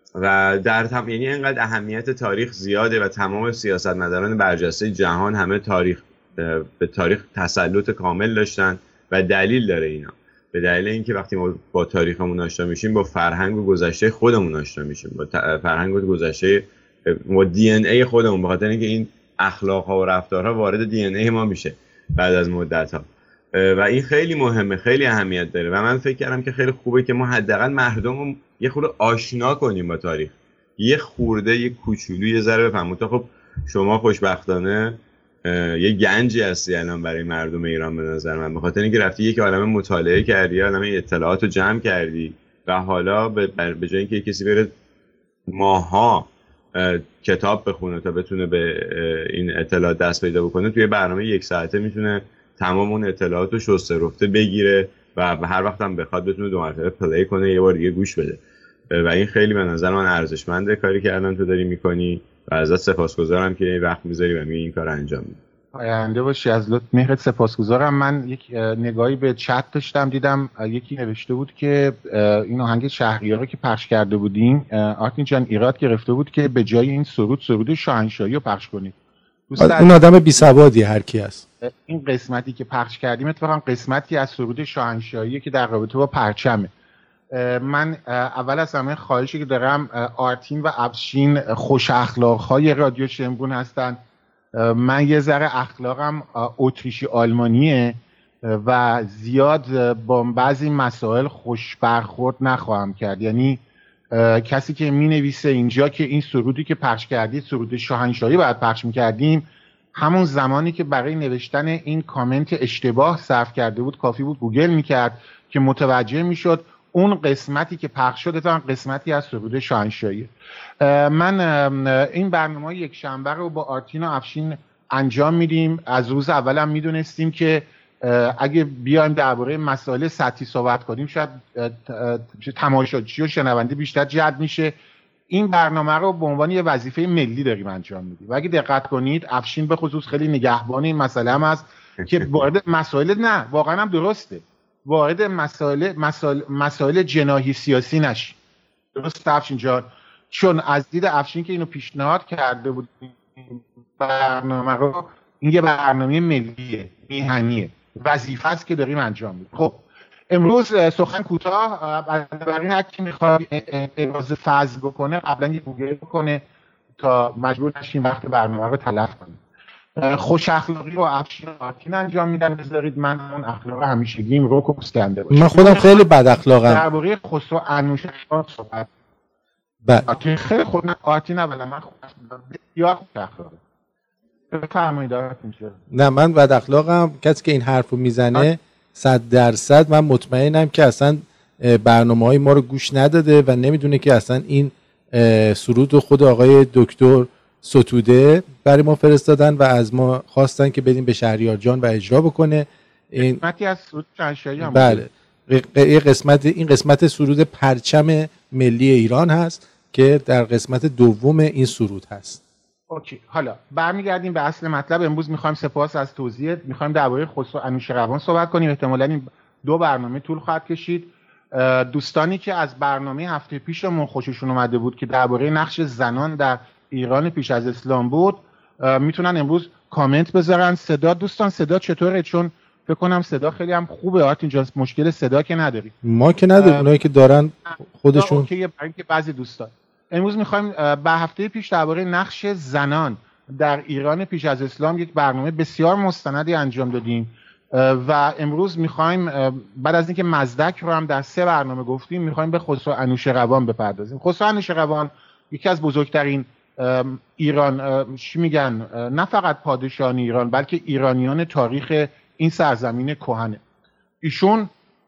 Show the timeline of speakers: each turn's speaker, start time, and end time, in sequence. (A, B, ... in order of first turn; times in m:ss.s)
0:00.2-0:44.7 A
0:45.5-1:05.4 A
1:05.7-1:18.9 B
1:19.5-1:20.5 B
1:19.6-1:21.4 C
1:21.6-1:26.7 B
1:27.3-1:34.0 B
1:34.5-2:14.7 B
2:15.3-2:28.4 B
2:22.0-2:22.3 A
2:28.9-2:46.4 B
2:47.0-2:49.4 B
2:50.0-2:56.1 B
2:55.3-2:56.8 C
2:56.6-2:58.9 B
2:59.8-3:00.1 C
3:00.0-3:03.6 B
3:04.5-3:05.8 B
3:05.9-3:23.4 C
3:23.2-3:25.0 B
3:24.6-3:32.4 C
3:32.9-3:55.9 B
3:56.0-3:58.5 C
3:56.6-3:56.9 B
3:58.1-4:23.6 B
4:24.2-4:24.7 B